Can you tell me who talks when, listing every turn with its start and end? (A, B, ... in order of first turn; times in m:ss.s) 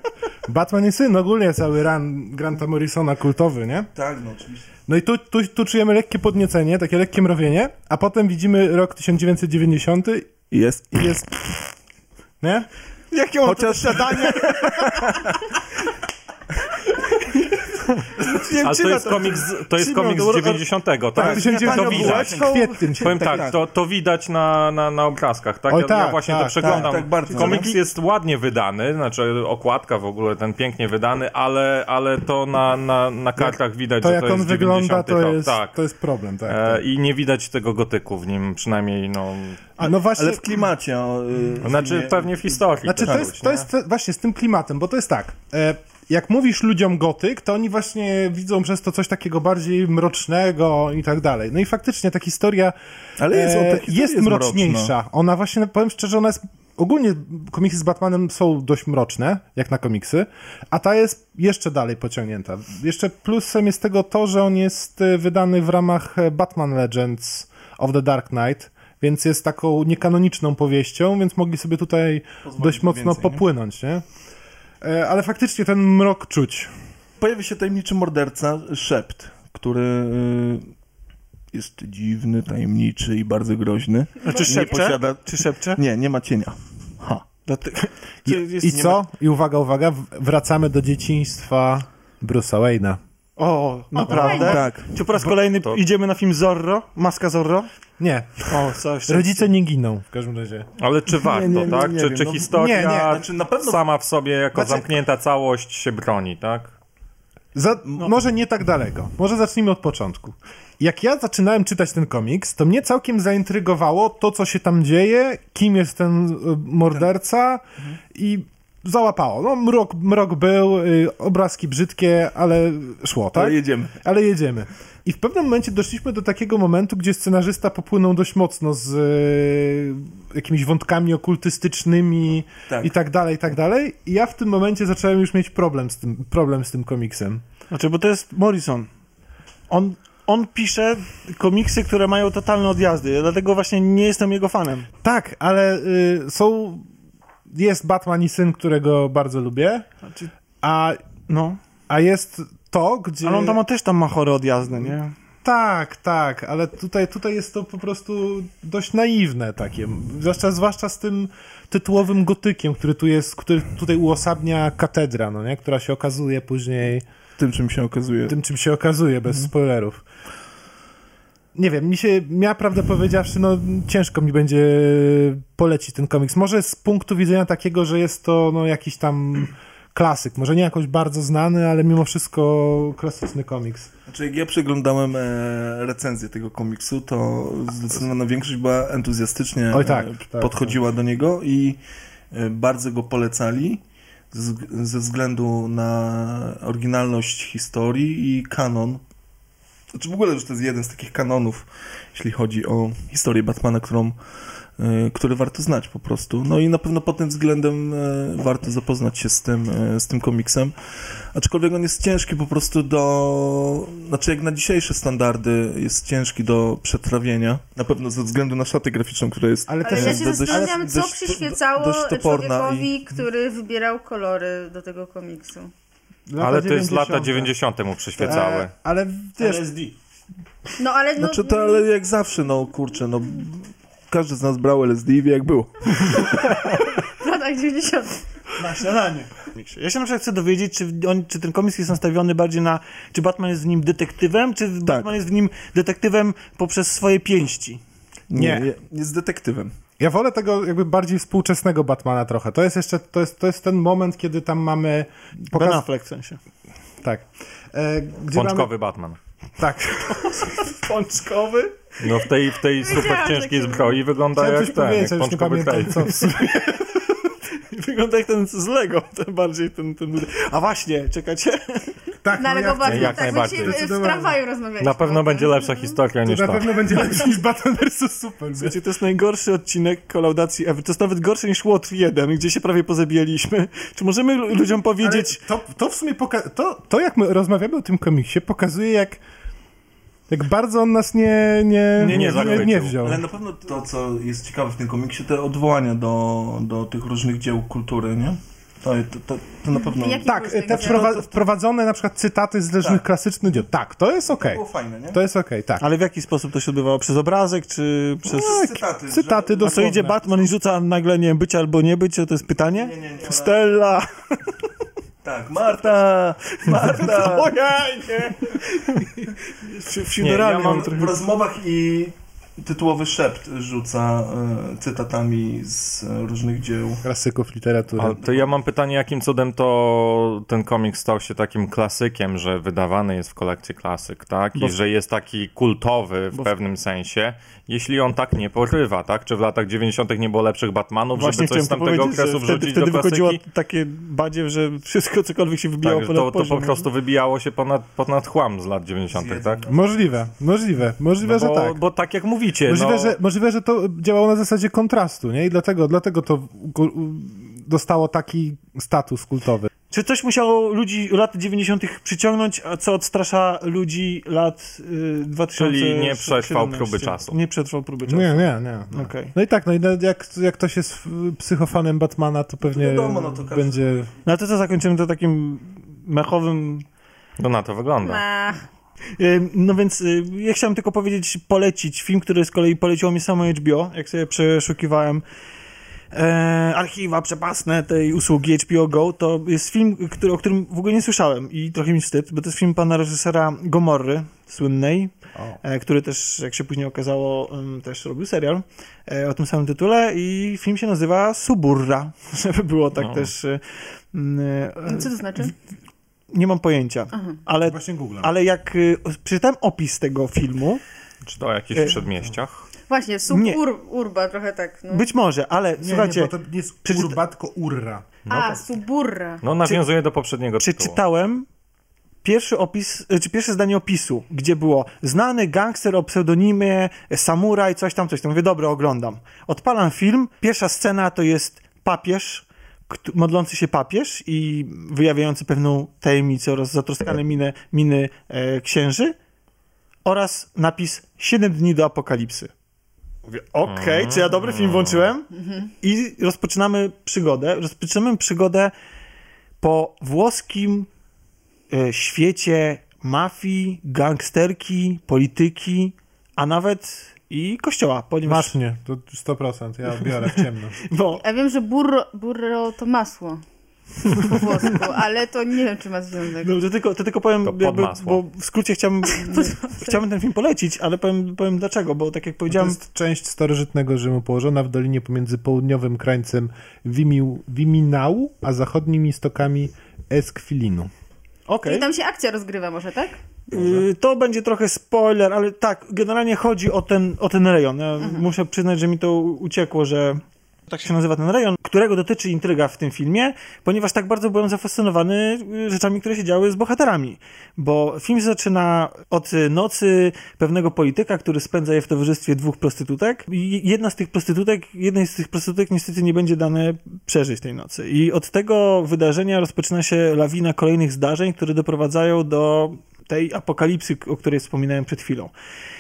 0:00.5-0:03.9 A
0:04.0-0:04.7 B
0:04.9-0:10.3 A
0:10.5-0:11.4 B
0:12.4-0:12.7 A
0:13.1-0:15.2 C
0:13.4-0:15.4 B
0:16.9-0:17.7 C
0:18.2-0:22.8 C
0:18.6-0:22.4 D
0:21.2-0:23.3 A
0:21.2-0:23.6 B
0:23.0-0:35.8 D
0:25.7-0:26.9 A
0:26.6-0:27.7 B
0:27.3-0:27.8 C
0:33.4-0:36.8 A
0:36.5-0:39.7 D
0:39.8-0:40.5 A
0:40.1-0:43.4 B
0:41.6-0:43.7 D
0:42.8-0:52.8 A
0:53.2-0:54.9 B
0:53.3-1:14.0 A
1:12.4-1:13.4 B
1:14.8-1:16.7 A
1:17.2-1:20.7 B
1:21.5-1:27.3 B
1:24.2-1:25.8 C
1:24.3-1:24.7 E
1:27.4-1:28.9 C
1:28.3-1:33.0 A
1:28.7-1:29.0 B
1:33.4-1:37.7 C
1:34.1-1:34.6 E
1:34.1-1:34.9 B
1:38.0-1:40.7 A
1:38.5-1:39.5 C
1:40.8-1:46.8 D
1:41.2-1:43.8 B
1:42.5-1:43.2 A
1:47.6-2:17.4 A
2:03.4-2:04.0 B
2:12.7-2:12.9 B
2:17.7-2:18.9 C
2:19.7-2:24.9 C
2:25.0-2:26.9 A
2:27.5-2:29.9 A
2:30.6-2:31.0 A
2:31.3-2:31.6 C
2:31.9-2:33.6 A
2:33.2-2:35.2 C
2:35.4-2:47.0 A
2:47.4-2:48.4 B
2:48.3-2:50.0 A
2:51.6-3:03.9 A
3:04.1-3:11.8 B
3:09.7-3:10.8 A
3:12.3-3:19.0 B
3:19.9-3:24.2 B
3:24.8-3:30.7 B
3:31.3-3:42.9 B
3:39.7-3:40.8 A
3:39.8-3:45.7 E
3:46.3-3:47.5 A
3:46.4-3:48.7 D
3:48.2-3:49.7 A
3:49.4-3:50.0 C
3:50.8-3:51.9 E
3:51.2-3:56.3 B
3:56.9-3:58.2 E
3:58.6-4:07.8 C
4:08.3-4:09.7 B
4:08.3-4:08.7 A
4:10.0-4:15.8 A
4:15.5-4:16.4 C
4:17.0-4:18.7 A
4:18.3-4:19.2 D
4:19.6-4:20.5 A
4:20.1-4:21.9 C
4:22.0-4:26.2 D
4:22.8-4:24.0 E
4:24.4-4:27.0 A
4:27.6-4:32.0 C
4:32.2-4:34.4 A
4:32.4-4:36.0 E
4:32.8-4:33.9 D
4:34.8-4:36.9 D
4:36.2-4:38.8 A
4:38.6-4:45.4 C
4:45.0-4:49.2 A
4:50.3-4:53.2 A
4:52.0-4:53.0 D
4:52.0-5:01.2 B
4:59.8-5:01.2 E
5:00.2-5:05.8 A
5:04.4-5:05.2 B
5:05.8-5:08.8 C
5:08.3-5:09.6 B
5:08.3-5:10.2 A
5:09.6-5:14.5 C
5:12.7-5:13.7 B
5:15.2-5:17.5 B
5:16.5-5:21.2 C
5:20.2-5:20.9 D
5:20.7-5:27.0 B
5:27.0-5:28.2 A
5:28.0-5:43.4 D
5:41.2-5:46.9 C
5:45.8-5:49.6 D
5:49.1-5:50.1 B
5:49.7-5:51.8 A
5:51.2-5:53.2 D
5:52.7-5:59.7 A
5:59.9-6:09.3 C
6:05.5-6:07.4 D
6:08.1-6:14.1 A
6:12.6-6:13.8 B
6:14.2-6:16.9 C
6:17.4-6:18.2 D
6:18.0-6:18.6 E
6:19.2-6:25.2 C
6:26.1-6:35.1 C
6:35.6-6:45.5 C
6:43.0-6:43.3 D
6:44.8-6:45.5 E
6:46.3-6:50.8 C
6:47.6-6:48.3 A
6:51.2-6:52.7 D
6:51.7-6:52.0 C
6:52.9-6:55.1 E
6:53.3-6:53.6 C
6:54.9-6:56.3 C
6:55.8-6:58.1 A
6:56.8-6:57.2 C
6:58.3-6:58.6 D
6:58.3-6:59.4 E
6:59.4-7:01.0 D
7:00.6-7:01.5 C
7:02.2-7:19.2 C
7:20.0-7:22.5 C
7:23.3-7:28.7 C
7:23.7-7:25.1 D
7:29.6-7:30.9 C
7:31.7-7:38.5 C
7:38.2-7:40.8 A
7:40.1-7:41.2 C
7:41.2-7:43.4 E
7:44.1-7:46.6 E
7:46.4-7:52.8 C
7:47.4-7:48.2 D
7:49.1-7:50.0 E
7:52.5-8:00.9 A
8:01.5-8:01.9 C
8:01.6-8:03.2 E
8:03.5-8:35.3 C